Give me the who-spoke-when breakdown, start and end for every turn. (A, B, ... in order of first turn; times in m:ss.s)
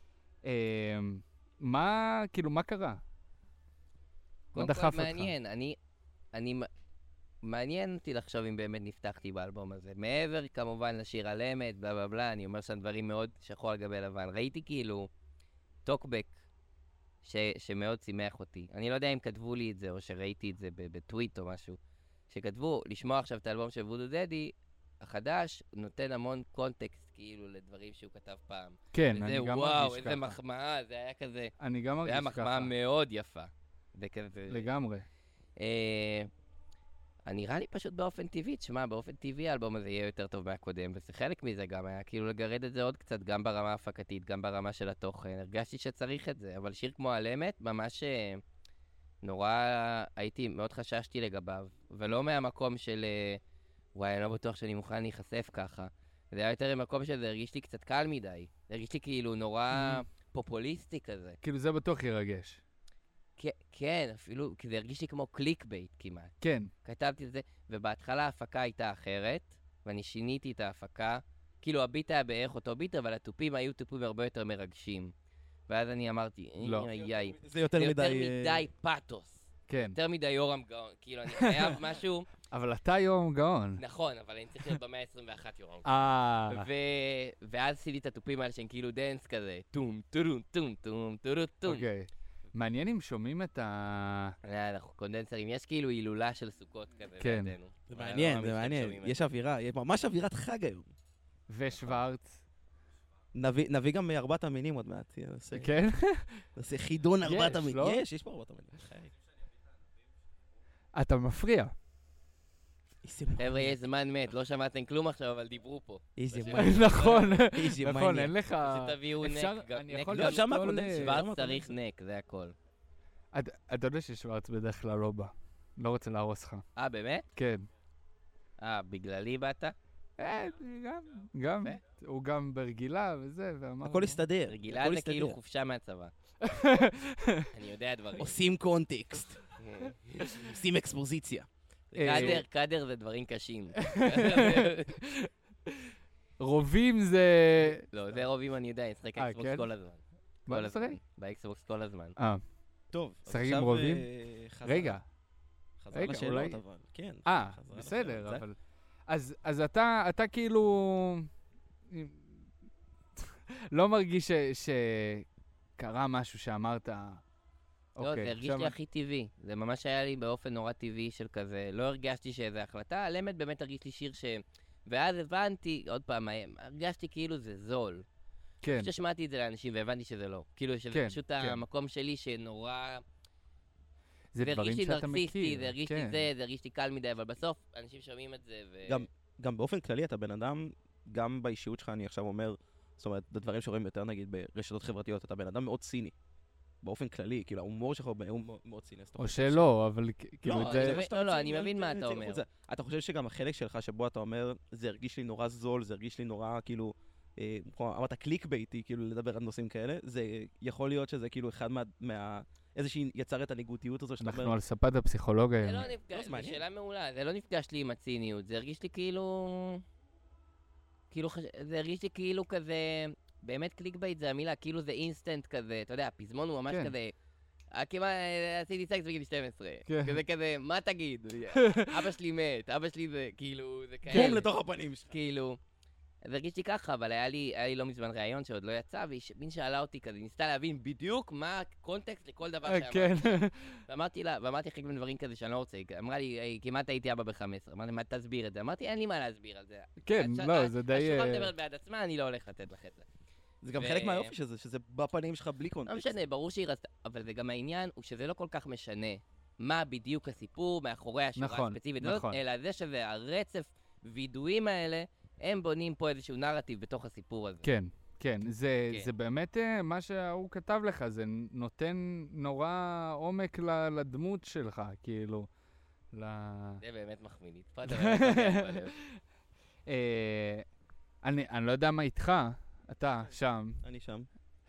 0:00.4-0:03.0 A
0:04.5-0:05.8 B
0:04.5-0:05.3 A
0:06.3-0:06.7 B
0:07.4-0:15.1 B
0:15.8-0:16.4 B
0:17.2-0:34.7 B
0:28.9-0:30.4 A
0:31.6-0:32.7 A
0:34.5-0:35.0 A
0:35.6-0:36.3 B
0:37.2-0:48.4 B
0:49.2-0:53.4 B
0:53.9-1:01.4 B
0:59.7-1:00.0 A
1:01.4-1:02.6 A
1:03.4-1:06.3 B
1:06.4-1:06.7 A
1:06.8-1:15.1 B
1:15.7-1:22.3 B
1:16.6-1:16.9 A
1:17.2-1:18.7 C
1:19.7-1:20.0 A
1:21.4-1:21.8 A
1:22.5-1:23.8 A
1:23.8-1:25.9 B
1:25.8-1:26.7 A
1:26.5-1:31.8 B
1:31.6-1:34.4 A
1:34.4-1:39.2 B
1:37.2-1:37.6 A
1:37.9-1:40.9 C
1:41.5-1:42.4 A
1:41.7-1:42.0 B
1:43.3-1:45.7 C
1:45.5-1:46.4 A
1:46.6-1:49.1 C
1:47.2-1:48.0 A
1:50.9-1:51.7 A
1:53.0-1:53.8 C
1:53.4-1:57.4 B
1:56.2-1:58.3 C
1:56.5-2:01.2 A
1:58.6-2:02.6 B
2:00.1-2:01.7 C
2:03.3-2:06.6 A
2:06.8-2:07.3 B
2:07.4-2:07.7 A
2:08.6-2:09.8 B
2:10.2-2:14.2 A
2:13.8-2:15.4 C
2:14.5-2:16.1 B
2:16.4-2:17.5 A
2:17.5-2:18.4 B
2:18.2-2:19.4 C
2:19.6-2:20.5 B
2:20.3-2:22.4 C
2:21.9-2:22.4 A
2:22.0-2:25.0 B
2:23.8-2:27.8 A
2:27.9-2:32.2 B
2:29.2-2:29.7 A
2:30.5-2:31.0 A
2:32.9-2:35.0 C
2:33.3-2:34.1 A
2:34.6-2:35.0 A
2:35.8-2:38.4 C
2:35.9-2:36.6 A
2:37.2-2:38.6 A
2:39.1-2:41.3 A
2:41.9-2:42.5 A
2:43.2-2:45.2 A
2:45.8-2:47.2 A
2:48.0-2:48.7 A
2:48.0-2:58.0 B
2:58.6-2:58.9 A
2:58.7-3:03.0 B
3:00.9-3:01.6 A
3:04.3-3:06.3 A
3:04.4-3:09.0 B
3:08.8-3:16.1 C
3:16.8-3:19.7 C
3:19.2-3:21.0 A
3:20.4-3:34.6 C
3:20.5-3:22.4 B
3:34.2-3:35.9 A
3:35.6-3:39.8 B
3:36.1-3:36.6 C
3:41.1-3:47.1 B
3:47.7-3:54.5 B
3:49.9-3:50.2 A
3:51.5-3:52.1 A
3:54.1-3:55.1 C
3:54.1-3:54.4 A
3:55.1-3:55.6 B
3:56.2-4:13.0 B
4:02.6-4:03.8 A
4:10.0-4:11.5 A
4:13.6-4:16.1 C
4:13.7-4:14.3 B
4:15.8-4:27.7 B
4:21.4-4:22.4 A
4:27.6-4:35.5 A
4:36.1-4:36.8 A
4:36.8-4:39.0 B
4:37.9-4:39.1 A
4:39.9-4:40.6 A
4:41.2-4:43.8 A
4:43.8-4:44.3 C